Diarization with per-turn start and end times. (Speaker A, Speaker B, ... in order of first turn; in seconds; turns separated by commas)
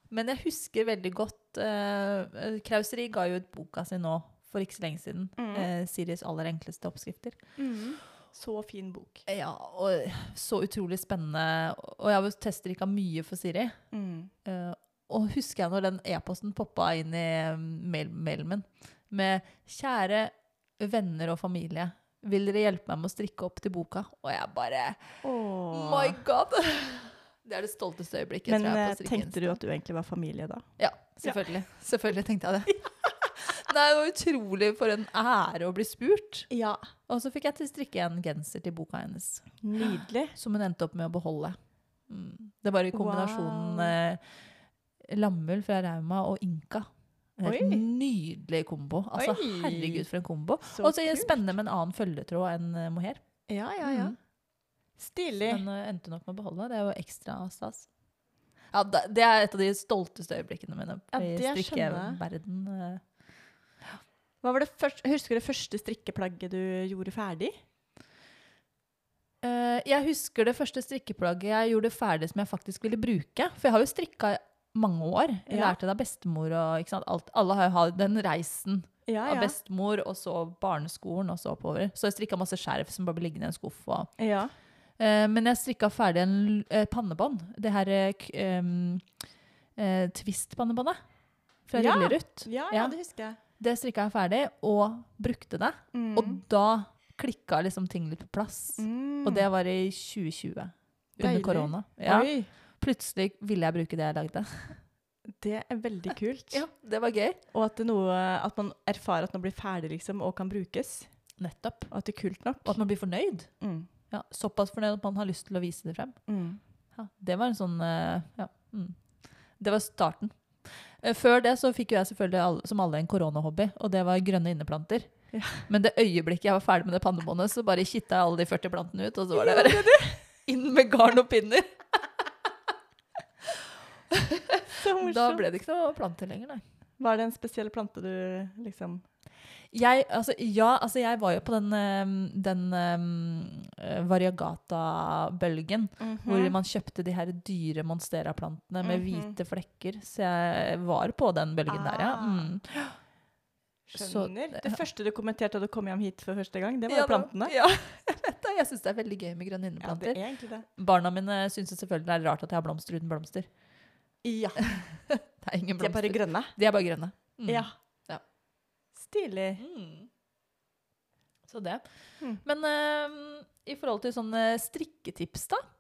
Speaker A: 0.1-7.4, Speaker B: 5.4-5.7, Speaker B: 7.6-9.3, Speaker A: 9.3-13.8, Speaker B: 13.9-14.3, Speaker A: 14.4-25.2, Speaker B: 25.2-26.2, Speaker A: 25.7-29.6, Speaker B: 28.5-30.6, Speaker A: 30.8-36.5, Speaker B: 36.5-36.8, Speaker A: 37.1-41.6, Speaker B: 39.6-40.4, Speaker A: 42.1-44.2, Speaker B: 42.9-44.0, Speaker A: 45.0-46.9, Speaker A: 47.4-53.2, Speaker B: 47.4-47.9, Speaker B: 49.1-50.1, Speaker B: 50.6-51.5, Speaker B: 53.5-54.1, Speaker A: 53.8-54.2, Speaker B: 55.0-55.6, Speaker A: 55.5-57.9, Speaker A: 58.7-63.0, Speaker B: 61.1-62.2, Speaker B: 64.4-67.5, Speaker A: 69.4-84.1, Speaker B: 75.5-75.8, Speaker B: 79.1-79.6, Speaker B: 84.2-84.5, Speaker A: 85.0-89.0, Speaker A: 89.8-91.0, Speaker A: 91.7-93.0, Speaker B: 91.8-93.4, Speaker A: 93.6-104.8, Speaker B: 95.9-96.4, Speaker B: 98.8-99.5, Speaker B: 101.2-102.5, Speaker B: 105.4-106.7, Speaker A: 106.5-107.4, Speaker B: 107.5-111.1, Speaker A: 111.4-111.9, Speaker B: 111.9-112.8, Speaker A: 112.7-113.5, Speaker B: 113.6-113.9, Speaker A: 114.1-116.2, Speaker B: 116.3-116.6, Speaker A: 117.0-119.0, Speaker A: 119.6-125.1, Speaker B: 125.3-125.6, Speaker A: 125.7-131.7, Speaker B: 129.3-130.2, Speaker A: 134.1-136.6, Speaker B: 134.8-135.5, Speaker B: 137.0-139.0, Speaker A: 139.7-153.0, Speaker B: 146.0-146.6, Speaker B: 148.8-149.3, Speaker B: 151.7-152.6, Speaker A: 153.9-154.8, Speaker B: 153.9-157.6, Speaker A: 156.9-160.2, Speaker B: 159.8-160.7, Speaker A: 160.8-163.5, Speaker B: 164.2-164.8, Speaker A: 164.6-168.2, Speaker B: 165.8-166.6, Speaker B: 167.5-167.7, Speaker B: 169.0-169.6, Speaker A: 169.6-170.1, Speaker A: 171.5-171.8, Speaker A: 172.4-175.6